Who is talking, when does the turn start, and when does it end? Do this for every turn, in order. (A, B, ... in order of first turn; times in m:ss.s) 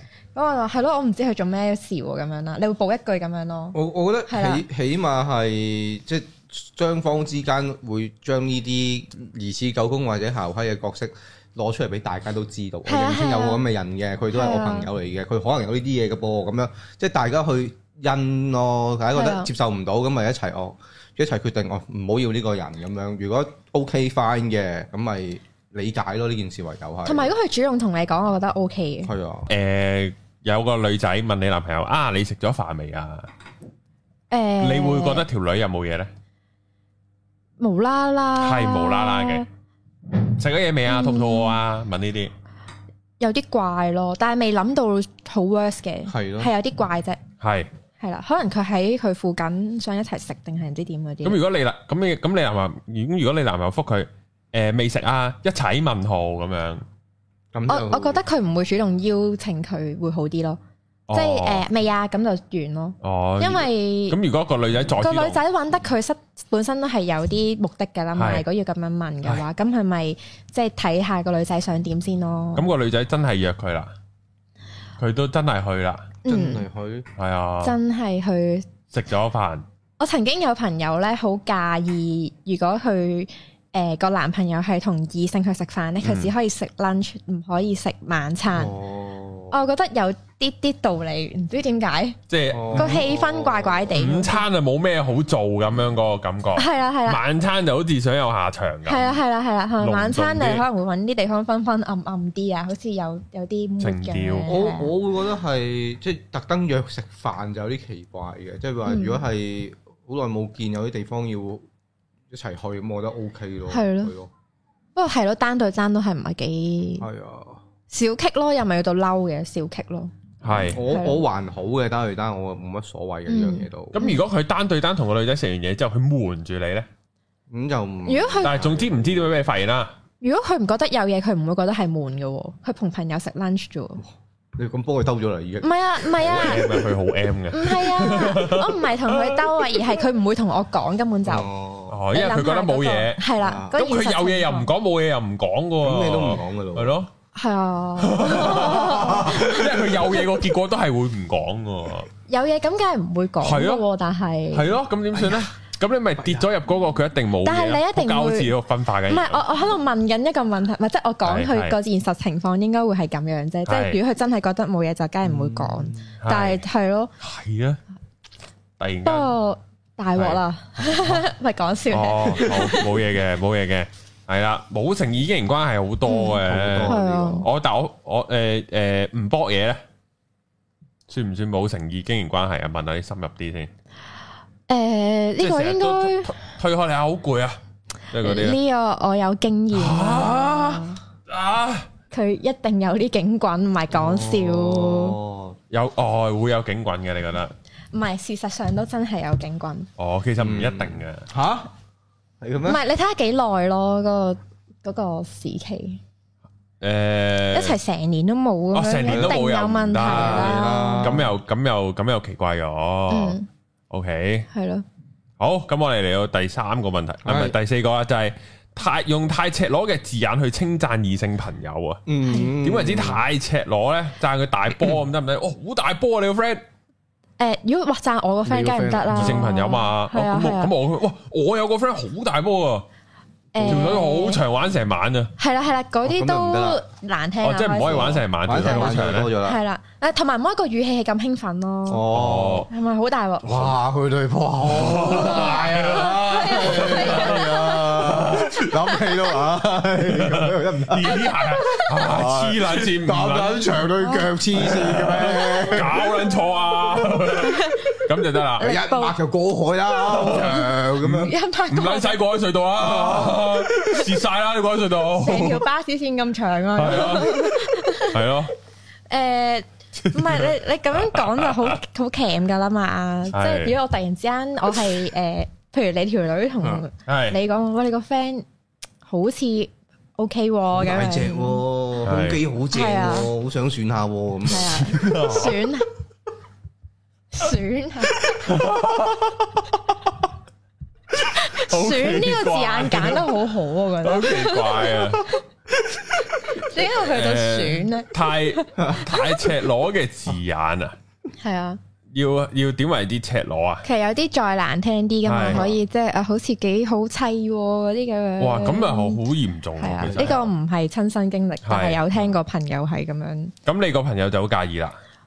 0:00.3-0:04.6 A
0:03.7-0:27.3 B
0:12.9-0:13.6 A
0:14.3-0:14.9 A
0:19.1-0:19.5 A
0:27.0-0:29.1 A
0:29.0-0:29.5 B
0:29.5-0:33.3 C
0:34.3-0:35.2 A
0:34.6-0:36.1 C
0:37.6-0:39.4 A
0:38.4-0:39.4 C
0:40.4-0:42.3 C
0:40.9-0:41.6 A
0:43.2-0:47.2 A
0:46.1-0:46.5 B
0:47.4-0:47.7 C
0:48.0-0:51.4 A
0:51.2-0:56.8 C
0:57.5-0:58.2 B
0:57.7-1:00.6 A
1:01.1-1:01.6 C
1:01.1-1:04.2 A
1:03.0-1:05.4 C
1:04.9-1:12.6 A
1:08.1-1:08.4 C
1:12.5-1:13.9 C
1:15.0-1:16.1 C
1:16.2-1:16.6 A
1:16.2-1:17.1 B
1:17.2-1:17.8 C
1:17.6-1:18.7 A
1:18.9-1:19.6 C
1:20.0-1:28.7 A
1:26.0-1:26.3 C
1:28.5-1:29.6 B
1:29.5-1:32.2 A
1:32.3-1:33.0 C
1:32.5-1:33.9 B
1:32.7-1:34.4 A
1:33.9-1:39.1 C
1:36.6-1:37.2 A
1:38.8-1:44.9 A
1:39.8-1:40.6 C
1:43.8-1:44.6 C
1:44.5-1:51.6 B
1:48.8-1:49.2 A
1:52.3-1:54.3 B
1:53.7-1:54.1 A
1:55.0-1:57.1 A
1:57.0-1:57.6 B
1:57.9-2:00.1 A
2:00.4-2:00.8 C
2:00.5-2:04.0 B
2:00.7-2:01.2 A
2:03.3-2:04.2 A
2:03.9-2:06.9 C
2:07.5-2:09.2 B
2:08.0-2:08.6 A
2:08.4-2:09.9 C
2:10.2-2:14.0 A
2:14.6-2:16.6 B
2:15.6-2:16.7 A
2:16.2-2:19.8 C
2:17.5-2:21.5 A
2:21.2-2:22.0 B
2:21.9-2:27.1 C
2:22.1-2:24.7 A
2:23.4-2:23.8 B
2:25.8-2:27.0 B
2:27.3-2:30.0 A
2:28.0-2:32.1 C
2:28.7-2:29.8 B
2:32.3-2:34.8 A
2:33.4-2:33.8 C
2:34.5-2:39.4 C
2:35.2-2:35.4 B
2:36.2-2:36.5 B
2:37.4-2:38.5 A
2:39.1-2:47.1 A
2:41.2-2:41.8 C
2:43.7-2:44.0 C
2:45.2-2:46.1 B
2:46.2-2:46.6 C
2:47.2-2:47.8 C
2:48.8-2:49.3 C
2:49.0-2:53.0 A
2:51.9-2:59.8 C
2:56.1-2:57.5 A
2:56.4-2:57.5 B
3:01.1-3:03.7 C
3:04.7-3:06.3 A
3:05.4-3:07.6 C
3:08.1-3:08.6 C
3:08.2-3:11.0 A
3:09.7-3:11.9 C
3:12.1-3:15.2 A
3:13.9-3:15.6 B
3:15.7-3:17.5 C
3:17.9-3:19.9 A
3:20.0-3:21.3 C
3:20.4-3:21.7 B
3:22.4-3:22.8 B
3:22.6-3:26.0 A
3:26.8-3:27.8 C
3:27.5-3:31.2 A
3:28.7-3:33.4 C
3:29.0-3:29.4 B
3:30.0-3:31.3 B
3:33.1-3:33.5 A
3:33.9-3:34.5 C
3:34.5-3:34.8 A
3:35.4-3:42.0 C
3:37.2-3:37.5 B
3:42.1-3:43.2 B
3:42.2-3:42.5 A
3:42.6-3:46.6 C
3:47.4-3:50.7 A
3:48.4-3:49.4 B
3:49.1-3:52.8 C
3:53.5-3:54.4 A
3:53.6-3:53.9 B
3:53.6-3:55.3 C
3:55.4-4:02.1 A
3:56.0-3:56.8 B
3:57.4-3:59.3 C
3:58.0-3:59.6 B
4:01.9-4:02.7 B
4:02.1-4:02.7 C
4:02.7-4:03.8 A
4:03.4-4:11.2 B
4:04.6-4:08.7 C
4:05.0-4:09.2 A
4:10.0-4:13.8 C
4:11.1-4:11.9 A
4:11.9-4:16.0 B
4:14.0-4:14.3 A
4:14.6-4:18.7 C
4:15.1-4:16.3 A
4:16.9-4:18.0 A
4:18.6-4:19.2 A
4:18.6-4:21.3 B
4:20.0-4:22.2 A
4:20.0-4:25.6 C
4:22.8-4:24.1 B
4:25.2-4:28.4 A
4:26.8-4:28.5 C
4:29.1-4:38.4 A
4:30.0-4:31.8 C
4:33.3-4:33.8 C
4:37.0-4:37.4 C
4:39.0-4:41.6 A
4:40.7-4:45.1 B
4:42.0-4:42.4 C
4:42.7-4:43.3 A
4:44.5-4:45.9 A
4:44.8-4:45.6 C
4:47.3-4:48.4 A
4:48.4-4:49.5 C
4:51.1-4:53.4 C
4:51.2-4:55.4 A
4:54.0-4:55.4 C
4:56.0-5:01.0 C
4:56.5-4:59.4 A
4:58.8-4:59.1 B
5:01.4-5:01.8 A
5:02.1-5:03.8 C
5:03.8-5:09.2 A
5:05.2-5:05.7 C
5:05.5-5:05.8 B
5:08.4-5:10.5 C
5:09.8-5:13.5 A
5:10.0-5:10.4 B
5:11.6-5:12.0 C
5:13.6-5:15.0 C